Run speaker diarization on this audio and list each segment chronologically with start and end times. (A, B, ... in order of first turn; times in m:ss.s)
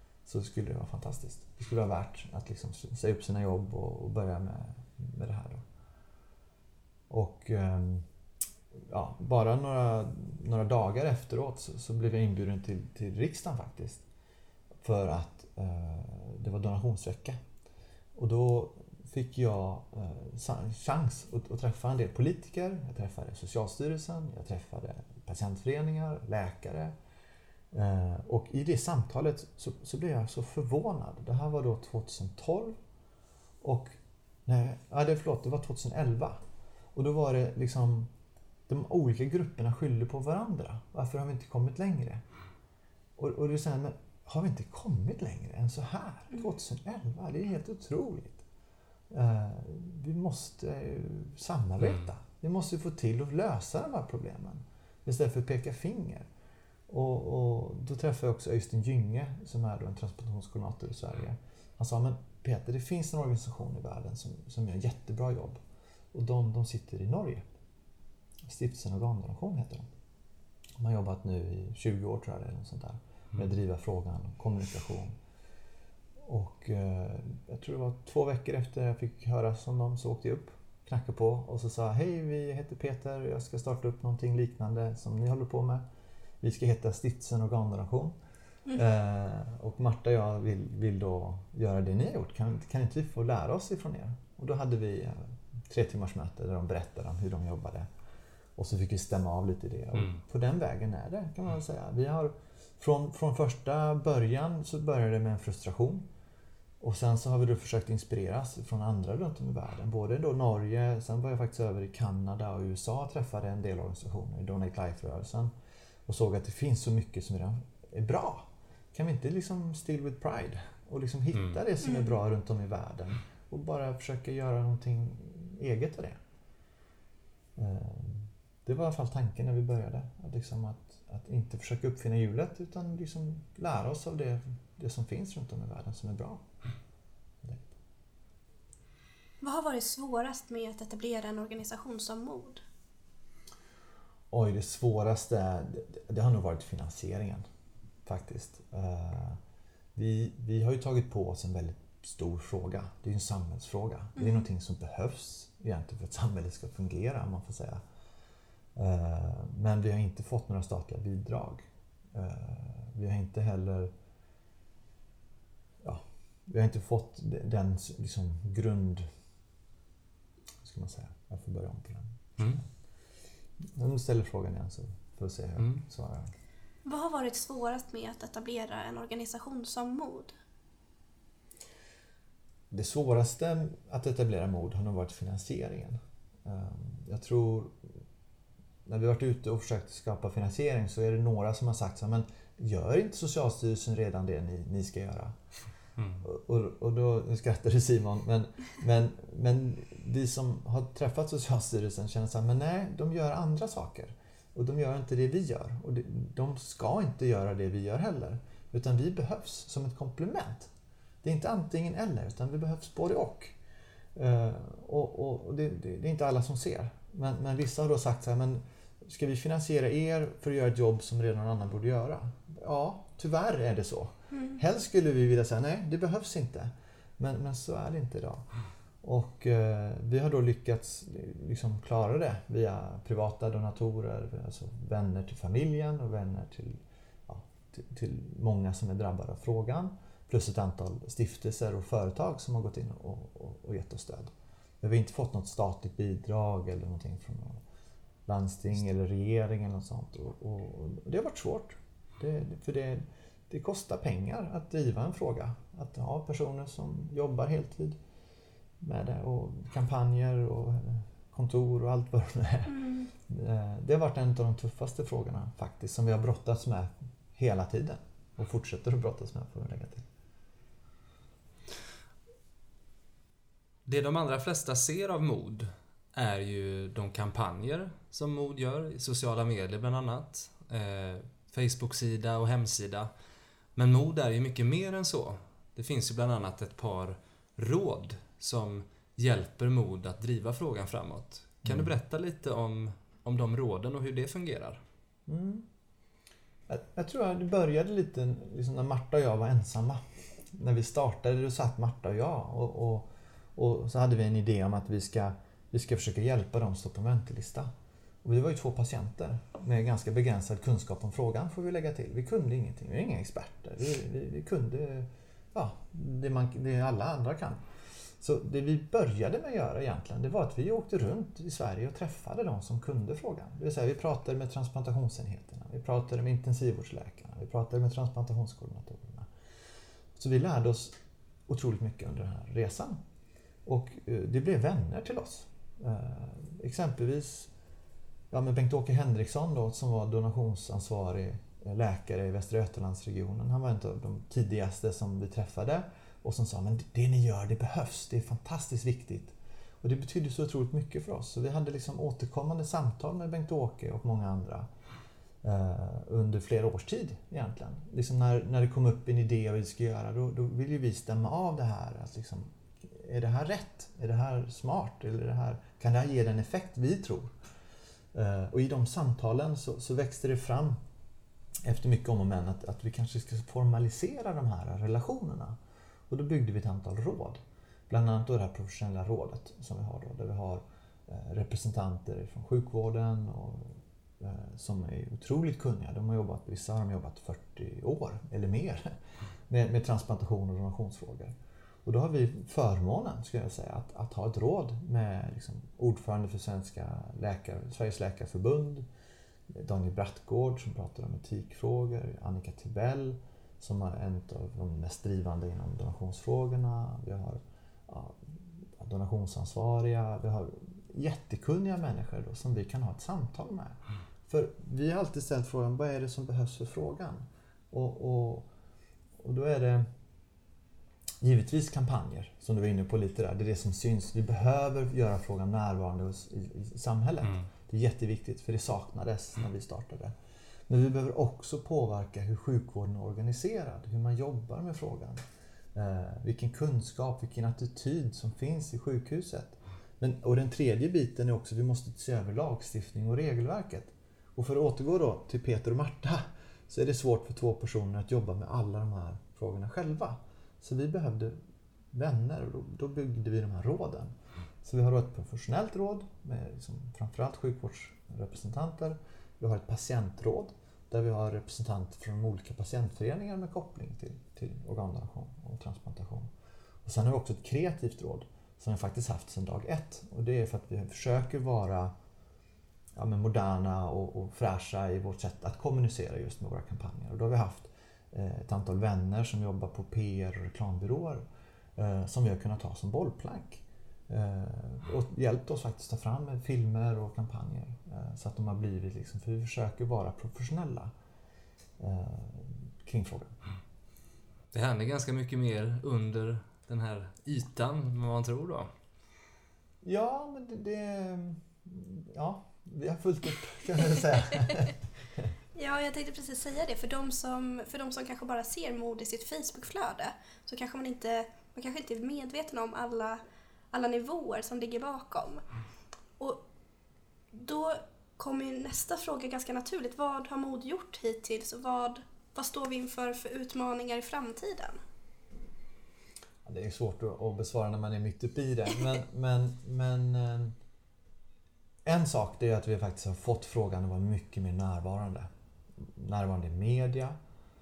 0:00.3-0:05.6 A
0:07.1-0:08.1 A
0:08.9-0:14.0 A
0:14.8-0:17.4 A
0:18.2-0:27.0 A
0:27.7-0:32.8 A
0:33.6-0:36.4 A
0:37.0-0:38.1 A
0:38.7-0:42.2 A
0:43.2-0:48.4 A
0:49.1-0:56.3 A
0:56.9-1:05.6 A
1:06.1-1:07.4 A
1:08.5-1:09.9 A
1:10.8-1:15.2 A
1:16.2-1:25.8 A
1:26.4-1:28.2 A
1:28.7-1:37.9 A
1:38.6-1:46.1 A
1:46.8-1:55.5 A
1:56.1-2:06.2 A
2:01.3-2:01.6 B
2:07.6-2:16.4 A
2:17.4-2:17.7 A
2:19.4-2:22.6 C
2:24.3-2:27.4 A
2:28.1-2:29.4 A
2:30.0-2:37.8 A
2:34.2-2:34.4 C
2:38.8-2:43.9 A
2:45.8-2:49.0 A
2:50.6-2:52.6 A
2:53.7-2:56.3 A
2:55.6-2:55.8 B
2:56.8-3:00.3 C
3:02.7-3:08.0 A
3:08.9-3:15.4 A
3:16.0-3:16.2 B
3:16.2-3:30.7 A
3:31.2-3:33.6 A
3:34.2-3:48.4 A
3:44.3-3:44.6 C
3:49.0-4:07.6 A
4:08.3-4:18.0 A
4:18.8-4:30.0 A
4:22.7-4:23.1 C
4:33.9-4:43.1 B
4:43.8-4:54.8 B
4:51.6-4:51.9 A
4:55.3-4:55.7 A
4:56.7-5:07.7 A
5:08.2-5:17.6 A
5:18.2-5:29.3 A
5:30.2-5:31.0 A
5:31.5-5:33.0 A
5:33.7-5:37.5 A
5:38.3-5:54.7 A
5:55.4-6:07.3 A
6:08.1-6:10.8 A
6:11.6-6:15.6 A
6:16.1-6:28.9 A
6:29.5-6:38.9 A
6:39.5-6:58.5 A
6:59.2-6:59.8 A
7:01.2-7:10.1 A
7:10.7-7:15.2 A
7:15.8-7:31.4 A
7:31.9-7:46.3 A
7:46.8-7:51.9 A
7:53.0-8:01.2 A
8:01.8-8:10.9 A
8:11.8-8:13.4 A
8:14.5-8:18.7 B
8:19.8-8:25.3 A
8:25.6-8:33.2 C
8:33.7-8:35.4 C
8:36.2-8:36.4 C
8:37.3-8:44.8 C
8:46.4-8:50.6 A
8:51.9-8:57.2 A